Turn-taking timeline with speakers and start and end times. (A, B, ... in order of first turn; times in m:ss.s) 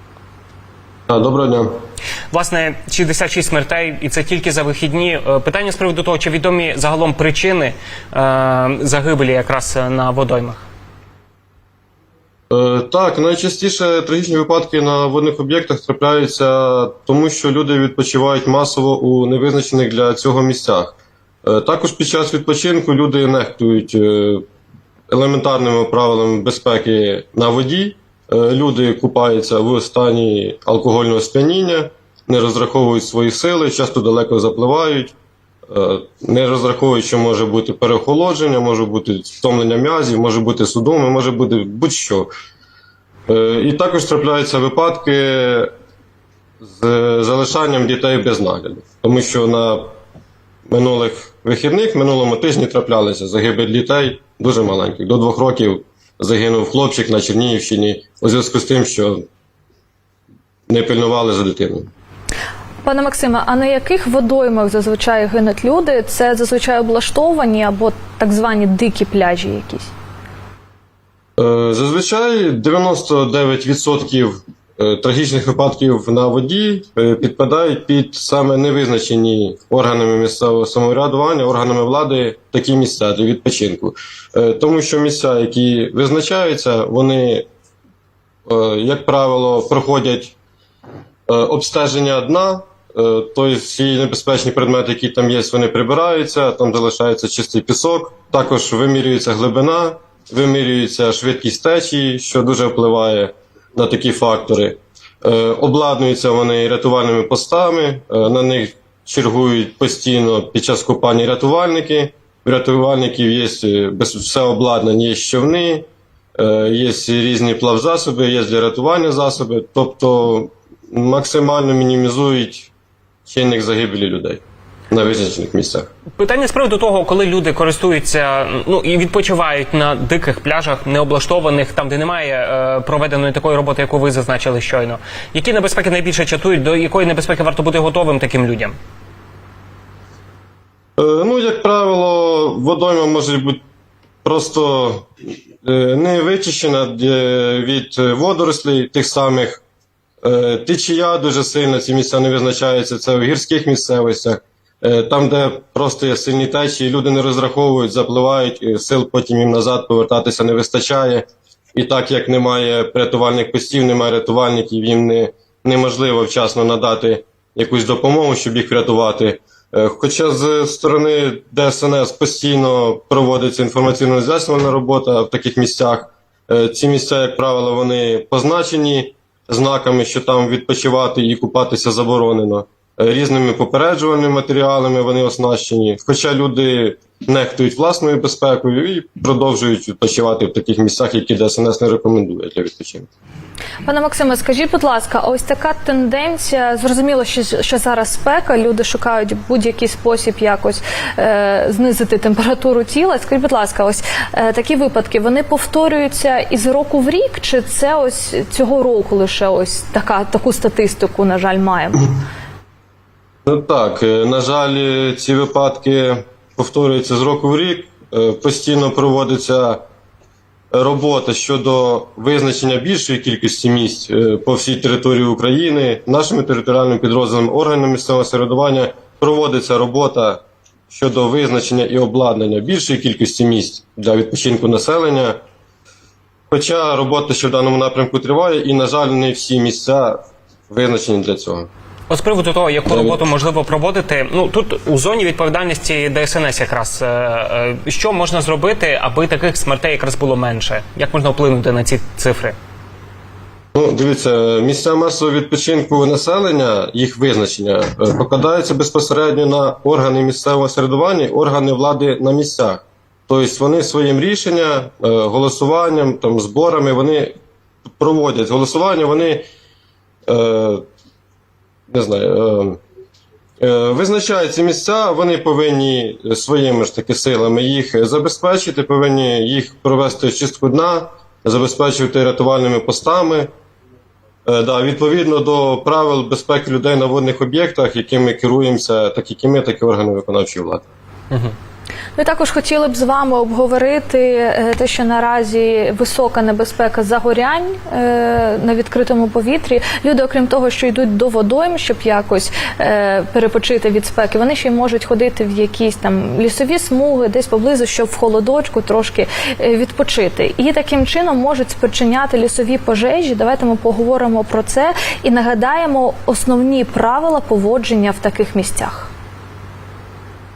0:01.1-0:01.7 A
0:02.3-0:10.6 B
0:12.5-0:24.4 A
0:25.1-0:35.1 A
0:35.7-0:42.3 A
0:43.3-0:45.7 A
0:46.6-0:49.9 A
0:50.7-0:59.2 A
1:00.7-1:01.9 A
1:02.8-1:09.9 C
1:11.4-1:27.5 A
1:28.5-1:30.4 A
1:31.3-1:55.8 A
1:56.4-2:02.7 A
2:03.3-2:05.9 A
2:06.2-2:18.8 B
2:21.0-2:23.6 A
2:24.2-2:25.1 A
2:25.6-2:29.6 A
2:30.2-3:13.1 A
3:13.8-3:32.1 C
3:33.4-3:39.8 A
3:40.7-3:55.4 A
3:56.5-4:01.7 A
4:02.1-4:12.6 B
4:02.9-4:03.2 A
4:13.7-4:27.3 A
4:28.0-4:29.4 A
4:30.3-4:30.8 A
4:31.9-4:32.8 A
4:33.6-4:43.5 A
4:44.4-4:50.8 A
4:52.2-5:19.1 C